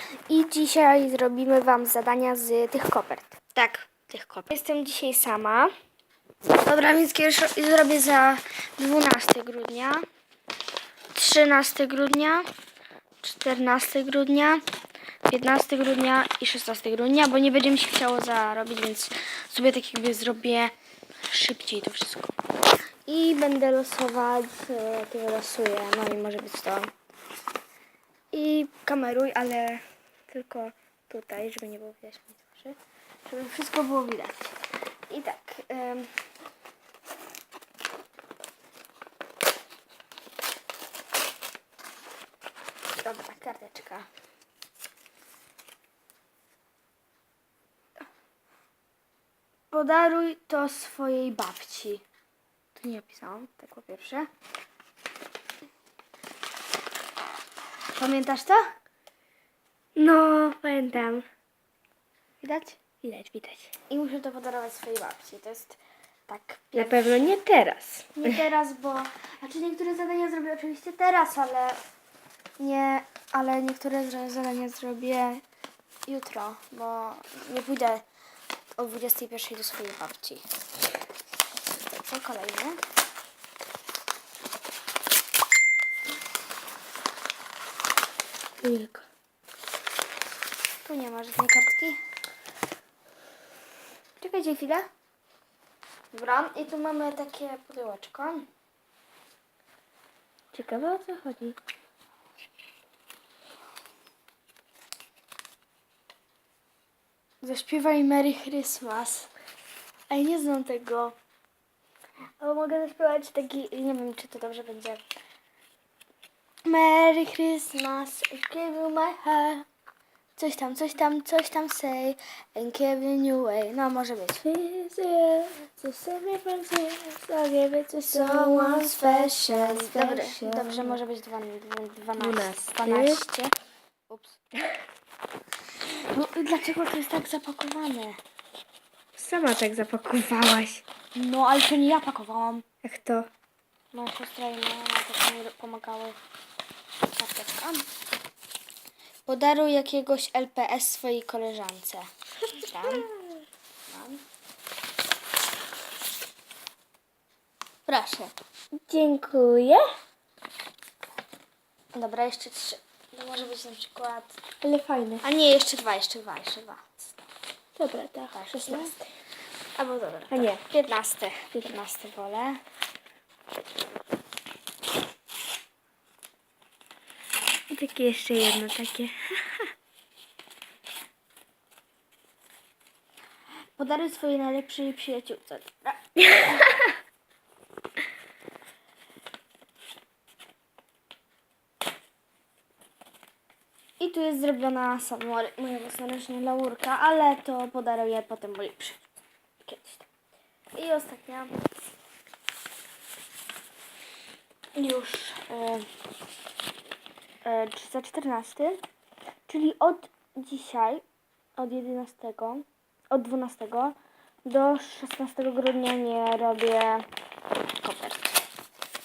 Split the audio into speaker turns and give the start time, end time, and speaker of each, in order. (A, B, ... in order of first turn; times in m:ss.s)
0:00.3-0:05.7 A
0:06.5-0:10.1 A
0:11.1-0:12.5 A
0:13.2-0:14.6 A
0:15.3-0:20.7 A
0:21.3-0:22.4 A
0:23.1-0:26.9 A
0:28.3-0:36.2 A
0:43.0-0:44.1 A
0:49.7-0:52.0 A
0:52.8-0:54.3 A
0:58.0-0:58.7 A
1:00.0-1:01.2 B
1:02.4-1:02.8 A
1:03.0-1:03.7 B
1:03.9-1:07.3 A
1:06.7-1:08.4 B
1:08.2-1:11.8 A
1:12.6-1:15.4 A
1:16.1-1:18.0 A
1:18.8-1:20.4 A
1:21.8-1:22.8 A
1:28.6-1:29.0 B
1:30.8-1:32.0 A
1:34.2-1:34.9 A
1:36.1-1:38.5 A
1:40.6-1:41.5 A
1:47.4-1:49.3 A
1:50.1-1:51.2 A
1:52.4-1:55.0 A
1:56.6-1:59.7 A
2:00.4-2:04.5 A
2:04.5-2:11.0 B
2:08.1-2:13.5 A
2:12.2-2:13.2 B
2:14.1-2:14.4 A
2:15.8-2:18.2 A
2:19.2-2:20.8 B
2:21.1-2:22.7 A
2:22.8-2:23.3 B
2:23.9-2:26.2 A
2:27.2-2:27.9 A
2:29.3-2:33.1 A
2:32.5-2:33.3 B
2:33.9-2:34.2 A
2:37.9-2:38.3 A
2:38.9-2:39.9 B
2:41.9-2:44.4 A
2:44.6-2:45.2 B
2:45.2-2:47.1 A
2:47.8-2:48.9 B
2:48.3-2:49.0 A
2:49.8-2:52.6 A
2:50.3-2:50.6 B
2:57.7-2:59.6 B
3:03.8-3:06.7 A
3:14.0-3:19.0 A
3:19.6-3:20.1 A
3:20.7-3:21.6 A
3:24.8-3:25.9 A
3:27.4-3:28.8 A
3:29.5-3:31.0 A
3:31.6-3:37.1 A
3:37.8-3:38.4 A